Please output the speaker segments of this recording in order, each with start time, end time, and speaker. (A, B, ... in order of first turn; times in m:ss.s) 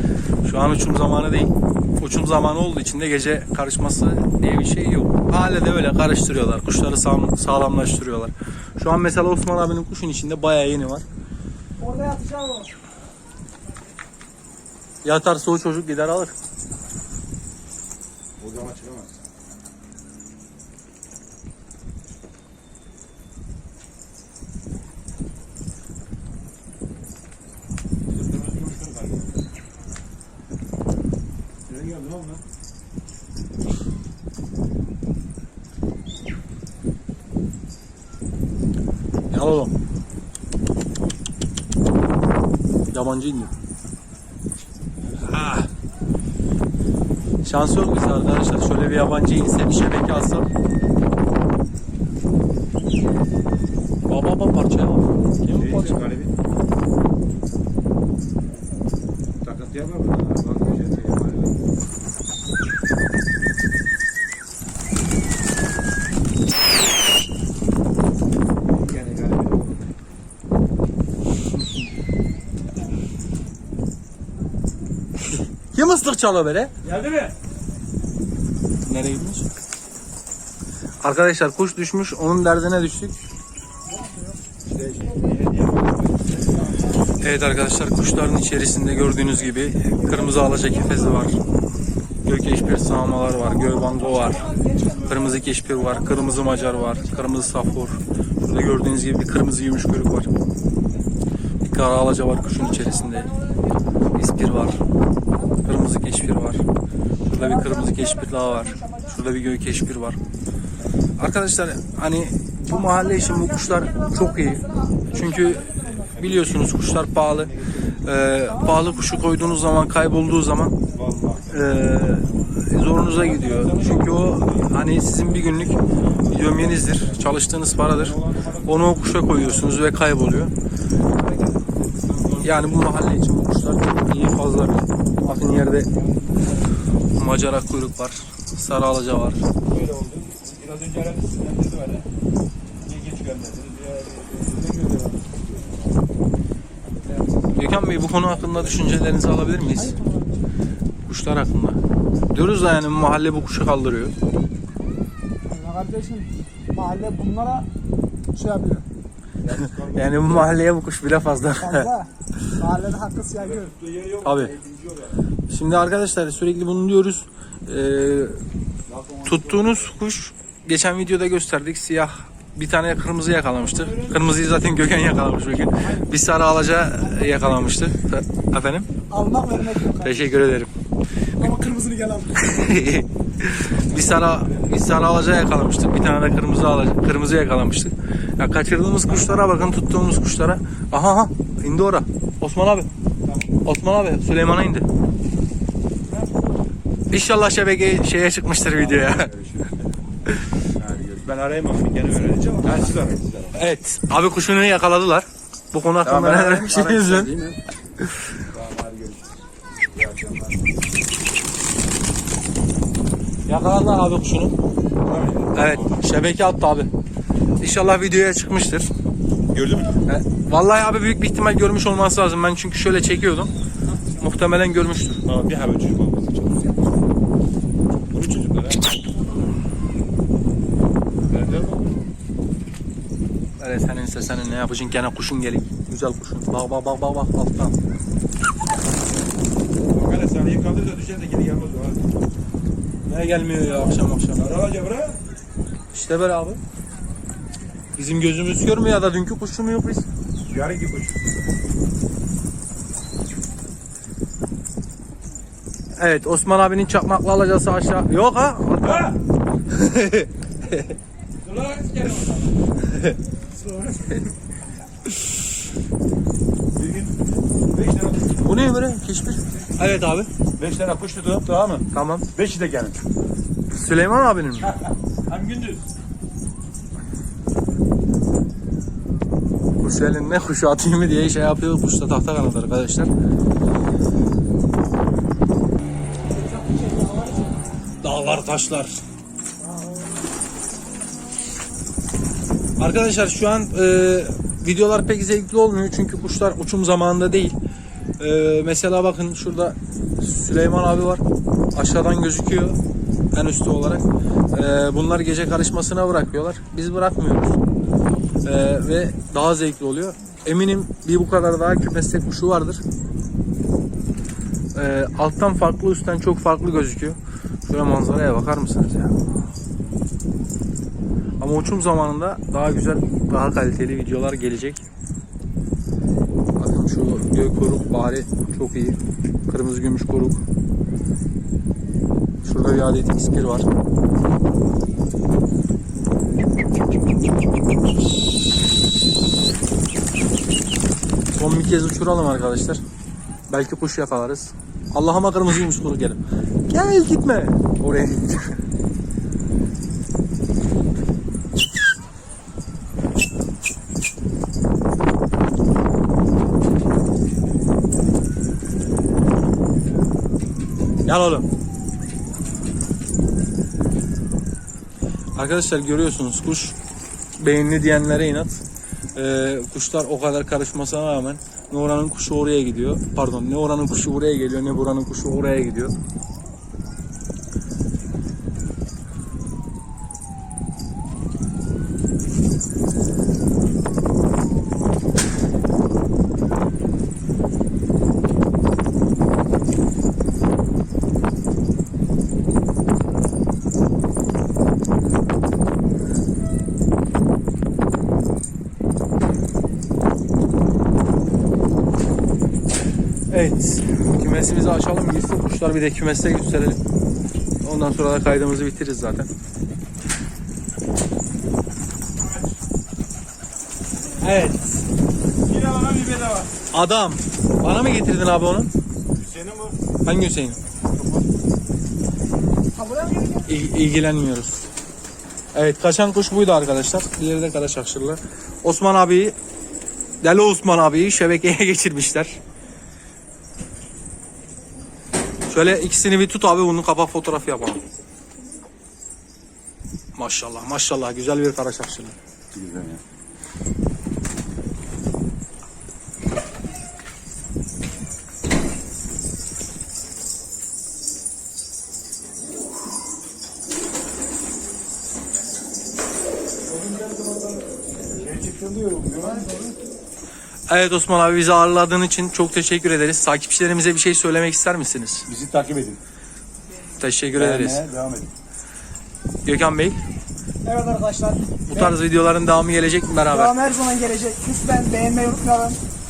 0:00.4-0:11.1 A
0:11.8-0:12.7 B
0:15.0-0:16.4 A
0:18.4-0:19.2 C
0:28.1-0:29.5 C
0:31.7-0:32.4 C
0:39.3-0:39.8 A
0:42.9-0:43.5 A
0:45.2-0:45.7 A
0:47.4-0:50.5 A
0:54.1-0:56.1 A
0:55.5-0:56.4 C
0:59.4-1:01.6 C
1:08.7-1:10.0 C
1:15.7-1:16.7 A
1:16.8-1:17.3 C
1:18.8-1:19.5 A
1:21.0-1:23.2 A
1:24.7-1:26.6 C
1:27.2-1:31.4 A
1:32.2-1:40.3 A
1:34.0-1:35.2 B
1:36.1-1:37.3 B
1:41.6-1:43.4 A
1:42.8-1:43.5 B
1:44.1-1:44.8 A
1:45.5-1:46.6 A
1:47.2-1:50.2 A
1:47.4-1:49.0 B
1:51.2-1:57.5 A
1:52.9-1:55.9 B
1:55.9-1:57.8 C
1:58.0-2:00.8 A
1:58.6-1:59.4 B
2:00.9-2:02.3 C
2:01.5-2:10.5 A
2:03.1-2:04.7 C
2:05.9-2:09.9 C
2:11.2-2:12.9 C
2:12.4-2:15.9 A
2:15.9-2:16.8 C
2:17.2-2:19.5 A
2:19.6-2:22.1 C
2:22.8-2:26.1 C
2:26.8-2:28.9 C
2:27.6-2:30.0 A
2:29.8-2:30.4 B
2:31.1-2:31.8 A
2:32.3-2:34.1 A
2:35.5-2:37.7 B
2:38.4-2:38.8 B
2:39.4-2:40.6 C
2:39.9-2:41.9 A
2:41.6-2:43.7 B
2:43.4-2:45.2 C
2:44.2-2:44.5 A
2:45.5-2:48.4 A
2:48.9-2:49.9 C
2:49.2-2:58.9 A
2:53.6-2:54.2 C
2:59.1-3:00.3 B
3:00.0-3:00.7 A
3:01.4-3:02.6 B
3:02.4-3:12.9 A
3:03.9-3:04.7 C
3:09.2-3:09.5 C
3:13.2-3:13.6 C
3:13.6-3:14.9 A
3:17.1-3:19.3 A
3:18.7-3:19.9 C
3:20.8-3:23.6 C
3:23.6-3:27.3 A
3:26.0-3:27.6 C
3:28.5-3:29.4 C
3:29.9-3:30.7 C
3:33.5-3:34.6 A
3:35.0-3:35.8 C
3:35.5-3:36.9 A
3:37.6-3:38.9 A
3:39.5-3:40.0 C
3:40.1-3:43.5 A
3:44.1-3:45.2 A
3:45.2-3:46.8 C
3:48.1-3:48.9 C
3:51.3-3:52.0 C
3:53.6-3:57.8 A
3:59.8-4:02.1 C
4:03.1-4:04.5 A
4:04.4-4:05.2 C
4:05.9-4:06.6 A
4:08.0-4:10.1 A
4:10.4-4:11.3 C
4:16.0-4:19.2 A
4:18.9-4:19.2 C
4:19.7-4:20.9 A
4:21.4-4:22.4 C
4:26.8-4:28.4 C
4:28.4-4:30.3 A
4:30.6-4:33.0 C
4:31.9-4:32.3 A
4:33.7-4:34.7 A
4:35.3-4:35.8 C
4:39.8-4:43.1 A
4:46.4-4:47.5 B
4:48.0-4:49.0 A
4:52.8-4:57.6 A
4:58.2-5:01.2 A
5:01.7-5:02.8 A
5:03.3-5:07.6 A
5:08.4-5:12.8 A
5:14.8-5:19.2 A
5:21.4-5:24.8 A
5:26.6-5:30.4 A
5:32.4-5:33.7 A
5:41.4-5:42.8 A
5:43.5-5:48.6 A
6:01.1-6:01.5 A
6:05.4-6:06.8 A
6:07.4-6:08.6 A
6:09.2-6:15.9 A
6:43.3-6:46.8 A
6:47.6-6:49.3 A
6:54.2-6:54.8 A
6:55.4-6:56.5 C
6:56.7-6:58.7 A
6:59.1-6:59.8 C
7:00.0-7:00.6 A
7:02.8-7:03.5 B
7:03.4-7:04.7 A
7:05.5-7:09.4 A
7:10.2-7:12.4 A
7:15.5-7:17.8 A
7:20.2-7:22.2 A
7:22.5-7:23.0 C
7:36.8-7:37.6 C
7:38.1-7:39.8 C
7:40.7-7:45.3 A
7:45.3-7:46.0 C
7:47.0-7:47.8 A
7:47.3-7:48.3 C
7:49.4-7:50.0 A
7:50.6-7:52.0 B
7:51.7-7:53.5 A
7:53.3-7:55.8 B